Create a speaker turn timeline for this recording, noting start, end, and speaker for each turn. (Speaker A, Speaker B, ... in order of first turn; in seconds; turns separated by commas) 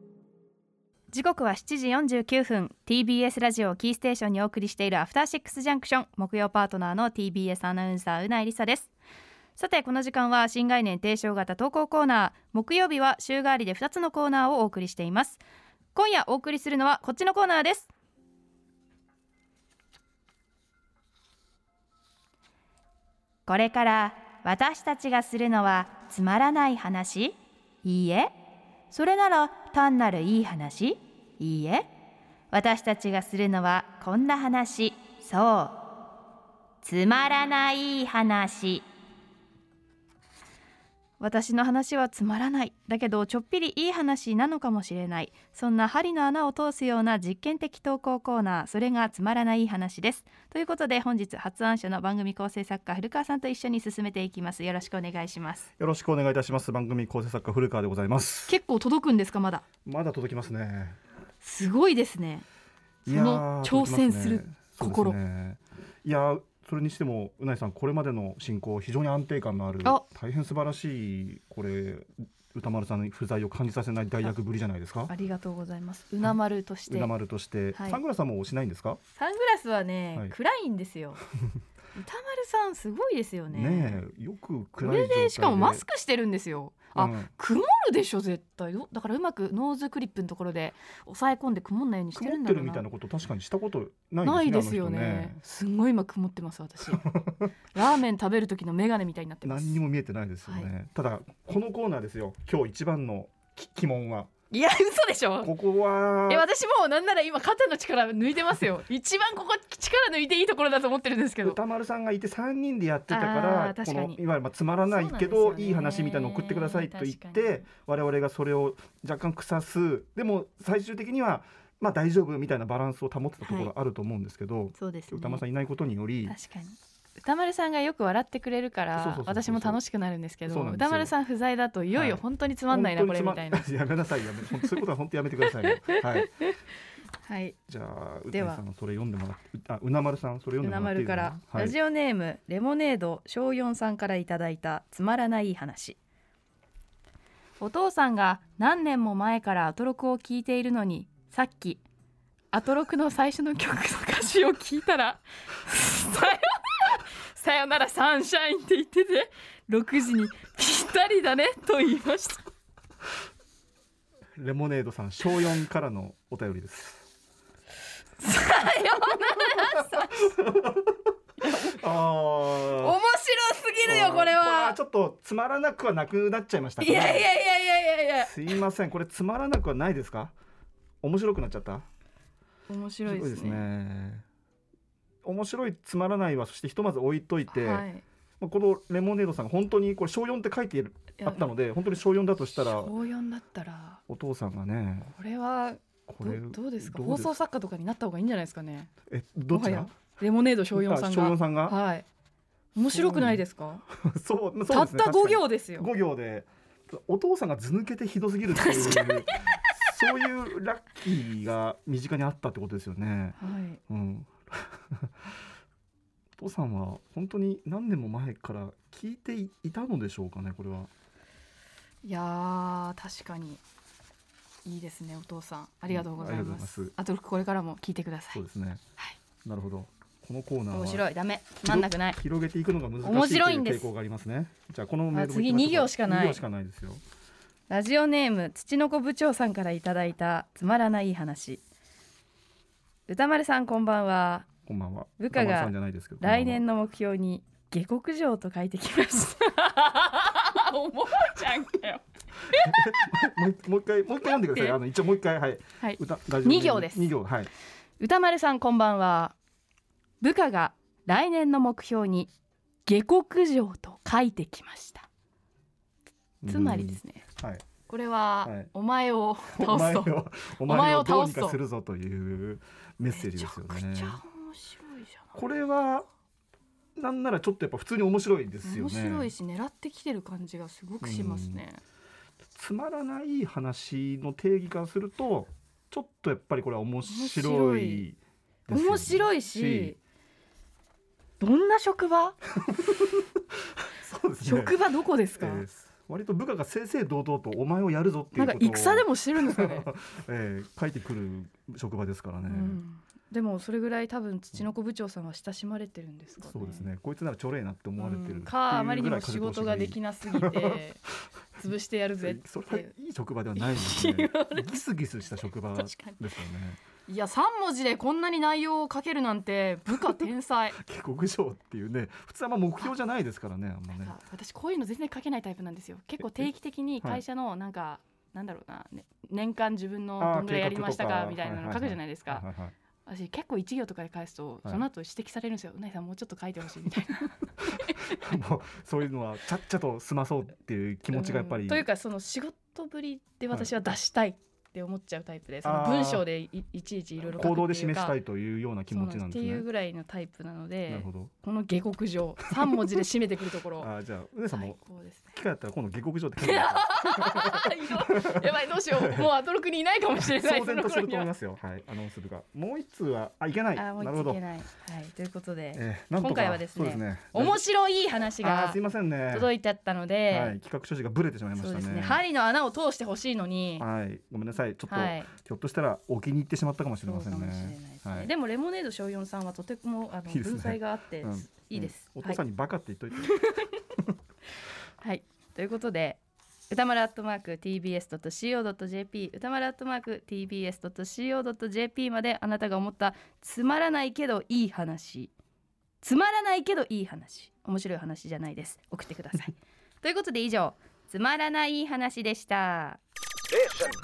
Speaker A: 1.1-8.9, Speaker A: 9.6-15.4, Speaker A: 15.9-17.9, Speaker A: 23.4-28.3, Speaker A: 28.9-31.9, Speaker A: 32.5-35.8, Speaker A: 36.8-38.9, Speaker A: 41.2-55.7, Speaker B: 55.8-58.6, Speaker A: 58.5-59.6, Speaker B: 59.8-61.0, Speaker A: 61.4-62.5, Speaker B: 63.0-75.1, Speaker A: 63.1-65.2, Speaker A: 75.1-77.1, Speaker B: 76.9-79.0, Speaker A: 77.7-78.0, Speaker A: 79.1-81.2, Speaker A: 81.9-84.0, Speaker B: 83.5-85.8, Speaker A: 84.8-92.8, Speaker B: 86.9-87.3, Speaker B: 92.1-95.4, Speaker A: 94.2-97.1, Speaker B: 96.9-97.4, Speaker A: 97.7-99.8, Speaker B: 99.4-104.3, Speaker A: 104.5-105.5, Speaker B: 105.4-106.5, Speaker A: 106.3-111.6, Speaker B: 111.4-126.3, Speaker A: 113.1-114.2, Speaker A: 114.8-117.6, Speaker A: 123.4-123.7, Speaker A: 124.7-125.4, Speaker A: 126.2-133.7, Speaker B: 128.9-129.8, Speaker B: 130.5-131.1, Speaker B: 131.9-136.3, Speaker A: 135.6-136.5, Speaker A: 137.2-137.6, Speaker B: 137.7-141.8, Speaker A: 138.3-138.6, Speaker A: 140.6-146.0, Speaker A: 147.6-151.8, Speaker A: 152.5-162.5, Speaker B: 164.4-167.1, Speaker A: 168.2-170.3, Speaker B: 169.5-170.9, Speaker A: 171.4-171.7, Speaker B: 171.5-173.0, Speaker A: 172.7-174.8, Speaker B: 173.8-177.3, Speaker A: 176.8-178.6, Speaker B: 178.2-180.3, Speaker B: 181.0-181.8, Speaker A: 182.7-183.7, Speaker B: 183.0-184.2, Speaker B: 185.2-187.9, Speaker A: 187.5-188.0, Speaker B: 188.4-192.9, Speaker A: 191.2-191.5, Speaker A: 192.6-194.0, Speaker B: 194.1-195.1, Speaker A: 195.1-198.9, Speaker B: 196.1-197.3, Speaker B: 199.1-200.2, Speaker A: 199.5-202.1, Speaker B: 200.7-201.8, Speaker A: 202.7-203.8, Speaker B: 202.9-213.4, Speaker A: 204.7-205.9, Speaker A: 208.6-209.6, Speaker A: 213.4-213.8, Speaker B: 213.9-215.1, Speaker B: 216.3-220.9, Speaker A: 222.0-223.6, Speaker A: 224.6-228.4, Speaker B: 225.9-226.9, Speaker B: 228.3-228.8, Speaker B: 229.4-231.1, Speaker A: 230.7-232.2, Speaker B: 231.6-237.0, Speaker A: 233.0-233.9, Speaker A: 235.1-236.4, Speaker A: 237.7-241.6, Speaker A: 243.1-244.5, Speaker B: 244.7-246.6, Speaker A: 245.2-253.3, Speaker B: 252.5-257.5, Speaker A: 254.3-254.8, Speaker A: 255.8-257.1, Speaker A: 258.0-259.3, Speaker A: 260.2-262.3, Speaker A: 262.9-265.1, Speaker B: 266.4-267.6, Speaker A: 266.4-267.2, Speaker A: 267.9-271.6, Speaker B: 268.4-268.7, Speaker B: 269.5-274.2, Speaker A: 273.1-275.4, Speaker B: 275.3-276.1, Speaker B: 276.9-279.3, Speaker A: 278.6-281.8, Speaker B: 281.0-281.6, Speaker B: 282.5-289.9, Speaker A: 287.1-288.1, Speaker A: 288.7-290.0, Speaker A: 291.4-292.4, Speaker B: 292.6-294.8, Speaker A: 294.4-295.6, Speaker B: 295.4-302.8, Speaker A: 298.3-299.9, Speaker A: 302.5-306.9, Speaker B: 306.4-310.8, Speaker A: 308.0-311.0, Speaker A: 311.6-312.9, Speaker B: 312.2-316.8, Speaker A: 313.6-314.8, Speaker A: 315.7-316.2, Speaker A: 317.1-320.8, Speaker B: 320.8-324.1, Speaker A: 323.9-332.5, Speaker B: 326.2-326.5, Speaker B: 330.2-332.7, Speaker A: 333.1-338.2, Speaker B: 337.7-341.9, Speaker A: 341.1-348.2, Speaker B: 345.6-346.3, Speaker B: 347.2-349.7, Speaker A: 348.9-353.9, Speaker B: 350.9-351.3, Speaker B: 353.8-354.8, Speaker A: 354.5-355.3, Speaker B: 355.3-359.3, Speaker A: 356.4-361.3, Speaker B: 360.2-364.4, Speaker A: 363.7-370.6, Speaker B: 365.7-367.6, Speaker B: 368.4-369.5, Speaker B: 370.3-372.2, Speaker A: 371.6-373.9, Speaker B: 373.8-378.3, Speaker A: 374.9-375.3, Speaker A: 377.0-382.4, Speaker B: 380.3-383.4, Speaker A: 383.2-383.8, Speaker A: 385.0-395.3, Speaker A: 396.0-403.0